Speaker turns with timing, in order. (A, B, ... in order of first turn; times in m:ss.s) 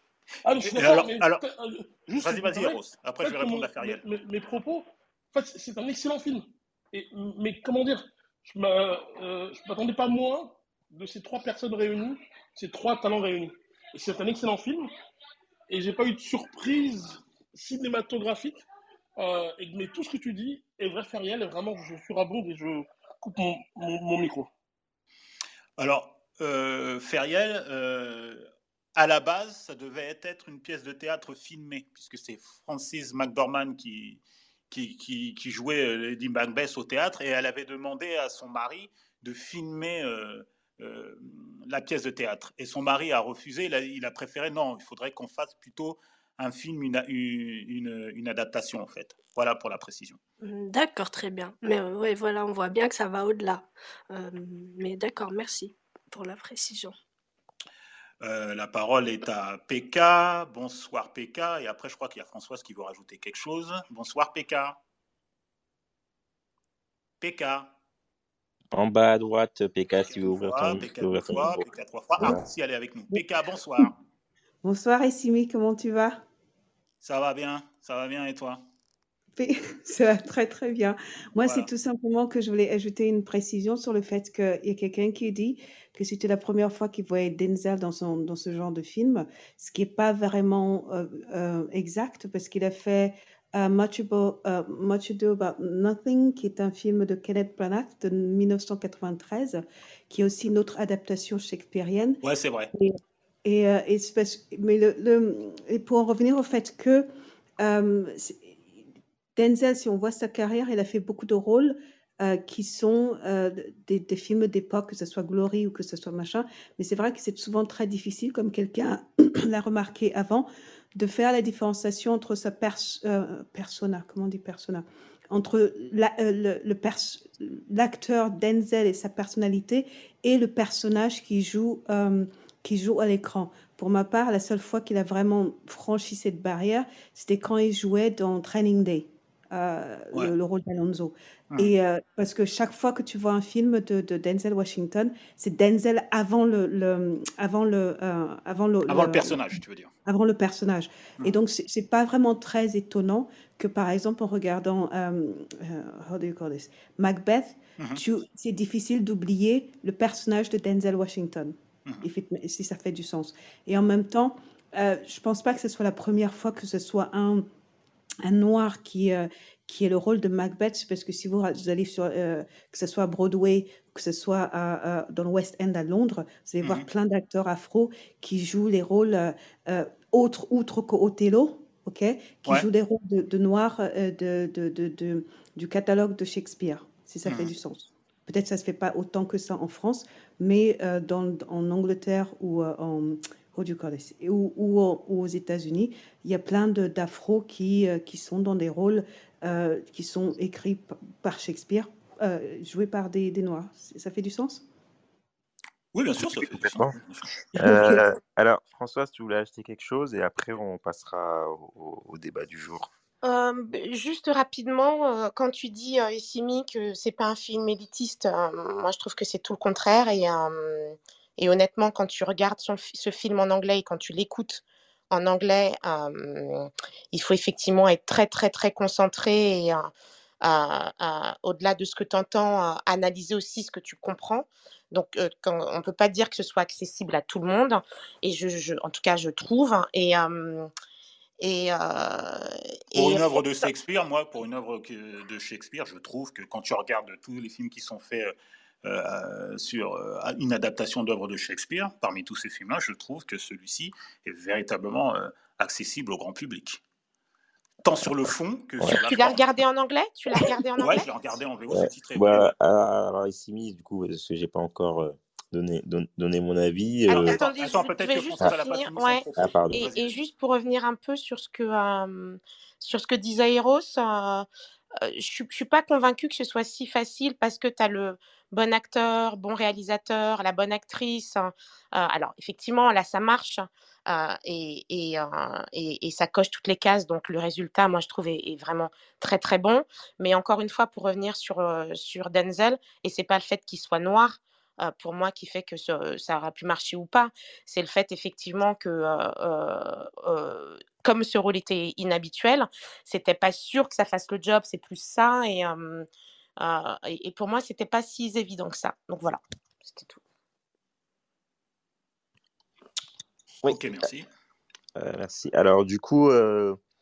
0:00.4-0:14.9 A
0:00.7-0:01.4 B
0:02.2-0:04.0 B
0:15.7-0:18.6 A
0:19.2-0:24.5 A
0:25.8-0:28.4 B
0:29.0-0:50.2 B
0:50.4-0:57.0 C
0:58.2-1:04.8 B
1:07.2-1:07.7 B
1:08.7-1:11.6 D
1:10.1-1:13.9 B
1:14.6-1:16.2 E
1:17.0-1:18.6 B
1:19.4-1:42.2 E
1:21.4-1:21.7 B
1:42.2-1:42.7 B
1:42.7-1:47.1 E
1:47.6-1:48.5 E
1:49.4-2:29.5 E
2:28.9-2:29.9 B
2:30.1-2:47.5 E
2:48.2-3:24.6 E
2:56.6-2:56.9 B
3:07.3-3:07.5 B
3:25.9-3:27.9 B
3:26.2-3:27.0 D
3:27.6-3:32.9 D
3:33.2-3:49.9 F
3:50.4-4:00.7 F
4:01.4-4:03.6 F
4:02.9-4:16.8 B
4:17.8-4:19.4 B
4:19.0-4:21.1 F
4:20.8-4:22.5 B
4:21.7-4:27.4 D
4:27.1-4:34.5 F
4:27.1-4:30.2 B
4:29.4-4:29.8 D
4:35.0-5:06.1 F
5:06.6-5:10.2 F
5:13.7-5:14.3 B
5:15.0-5:16.8 D